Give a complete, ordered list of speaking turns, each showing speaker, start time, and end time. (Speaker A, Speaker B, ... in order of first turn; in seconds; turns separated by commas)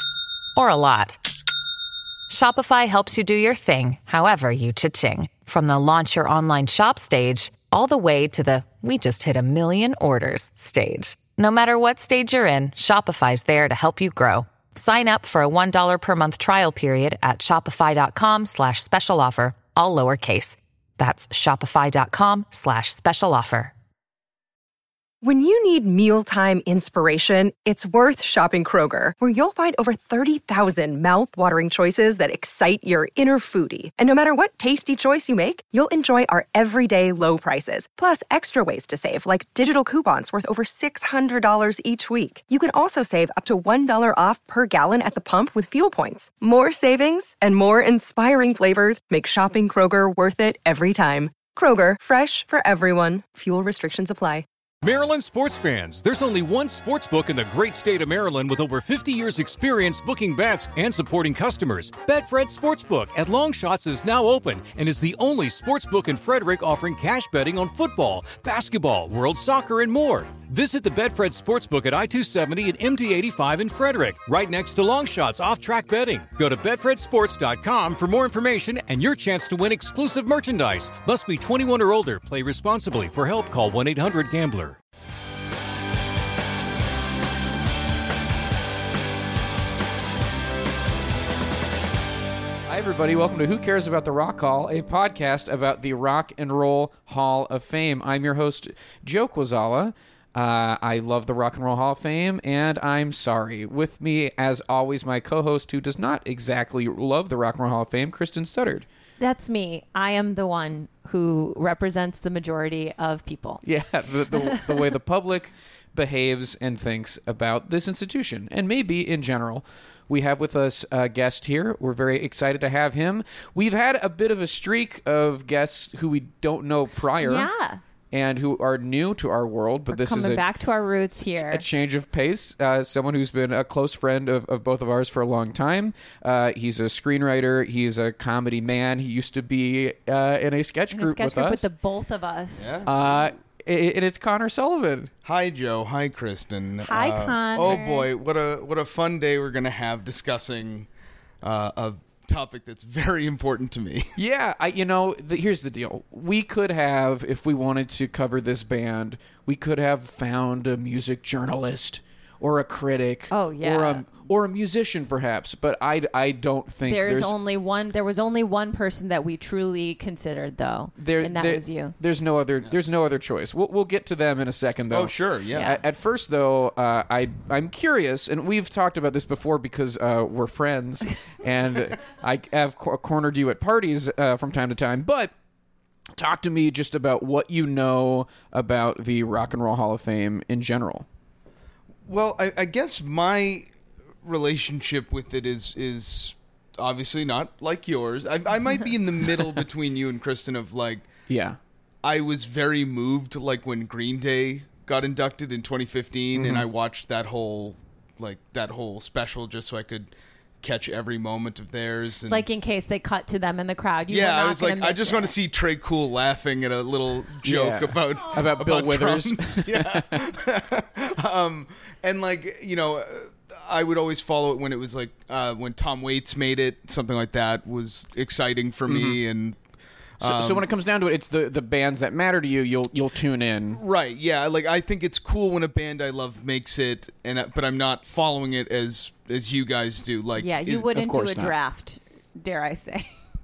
Speaker A: 0.6-1.2, Speaker A: 2.3-23.7, Speaker B: 25.2-54.5, Speaker C: 54.8-84.8, Speaker D: 92.7-108.9, Speaker E: 109.2-113.6, Speaker D: 113.6-127.5, Speaker E: 114.4-114.7, Speaker E: 127.2-127.8, Speaker D: 128.1-130.4, Speaker E: 129.9-131.7, Speaker D: 131.5-141.7, Speaker E: 140.9-142.9, Speaker F: 142.6-143.2, Speaker D: 142.9-145.1, Speaker F: 145.2-150.9, Speaker E: 146.8-148.1, Speaker F: 151.4-154.1, Speaker D: 154.2-167.3, Speaker E: 163.3-164.1, Speaker E: 166.8-171.9, Speaker D: 171.0-185.3, Speaker F: 174.9-175.8, Speaker E: 175.5-175.8, Speaker D: 186.2-191.1, Speaker F: 192.1-193.7, Speaker F: 194.2-201.1, Speaker D: 201.3-201.6, Speaker F: 202.0-212.6, Speaker D: 206.3-206.7, Speaker E: 212.3-215.3, Speaker F: 214.1-229.6, Speaker D: 217.4-220.2, Speaker D: 228.9-229.2, Speaker F: 230.2-230.7, Speaker D: 230.2-233.8, Speaker F: 233.7-240.9, Speaker E: 240.4-243.1, Speaker D: 240.9-241.5